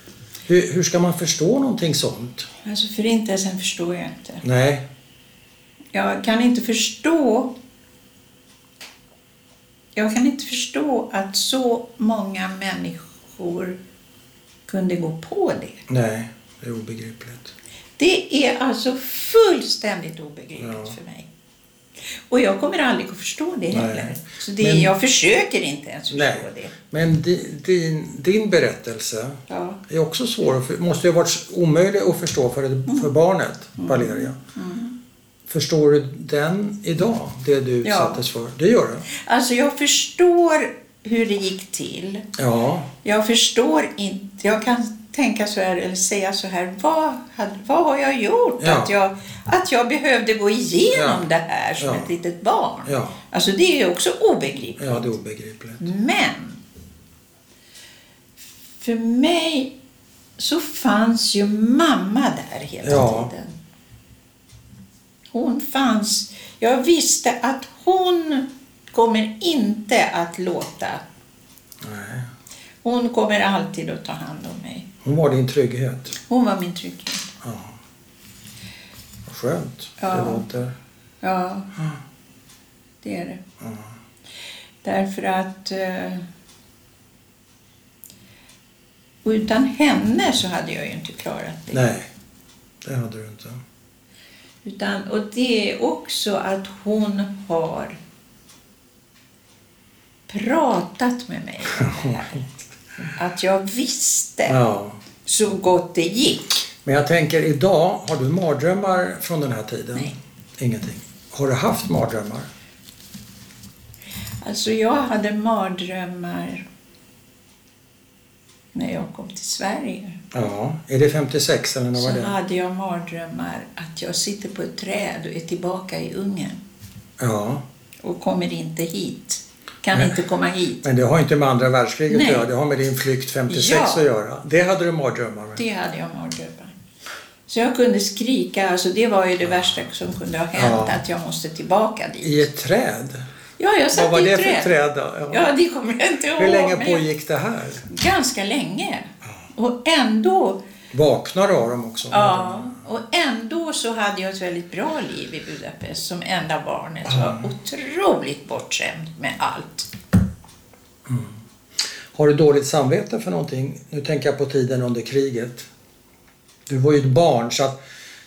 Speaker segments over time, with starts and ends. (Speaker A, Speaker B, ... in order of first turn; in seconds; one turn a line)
Speaker A: 0.5-2.5
Speaker B: 2.6-4.4
Speaker A: 4.4-4.8
Speaker B: 5.9-7.5
Speaker B: 9.9-13.8
Speaker B: 14.7-15.8
Speaker A: 15.9-17.5
Speaker B: 18.0-21.3
Speaker A: 20.6-20.9
Speaker B: 22.3-26.7
Speaker A: 23.7-24.9
Speaker A: 26.1-34.4
Speaker B: 29.5-29.8
Speaker B: 33.8-35.0
Speaker A: 35.5-39.1
Speaker B: 37.8-38.2
Speaker B: 39.1-42.2
Speaker A: 42.4-42.9
Speaker B: 43.0-55.1
Speaker A: 48.6-48.9
Speaker A: 50.9-51.2
Speaker A: 51.8-52.1
Speaker A: 52.8-53.2
Speaker A: 54.8-55.9
Speaker B: 55.8-56.6
Speaker B: 58.8-59.8
Speaker B: 60.4-63.6
Speaker A: 62.8-63.3
Speaker B: 65.3-71.0
Speaker A: 71.8-72.3
Speaker B: 72.8-74.9
Speaker A: 75.0-76.1
Speaker B: 76.2-77.3
Speaker A: 77.4-77.8
Speaker A: 79.3-80.7
Speaker B: 80.0-80.5
Speaker B: 81.2-81.7
Speaker B: 83.0-83.4
Speaker A: 83.6-83.9
Speaker B: 84.8-86.2
Speaker B: 89.2-91.8
Speaker A: 91.7-92.1
Speaker A: 92.8-93.6
Speaker B: 94.6-98.0
Speaker B: 100.3-102.4
Speaker A: 101.8-103.0
Speaker B: 103.2-104.6
Speaker A: 104.5-105.0
Speaker B: 105.2-106.5
Speaker A: 106.8-112.5
Speaker B: 114.4-116.7
Speaker B: 118.7-120.3
Speaker A: 120.3-122.3
Speaker B: 122.0-126.6
Speaker A: 127.2-127.6
Speaker B: 128.0-130.8
Speaker A: 129.9-130.2
Speaker A: 130.8-135.6
Speaker B: 132.1-132.4
Speaker B: 133.5-134.1
Speaker B: 135.6-136.7
Speaker B: 137.5-142.4
Speaker A: 139.5-139.8
Speaker A: 140.5-141.0
Speaker A: 142.2-143.2
Speaker B: 143.6-144.7
Speaker A: 143.9-145.5
Speaker B: 145.3-147.0
Speaker A: 146.4-147.9
Speaker B: 147.9-150.6
Speaker A: 150.9-152.8
Speaker B: 152.1-159.9
Speaker A: 157.1-157.4
Speaker A: 161.1-161.4
Speaker A: 162.1-165.7
Speaker A: 166.7-167.8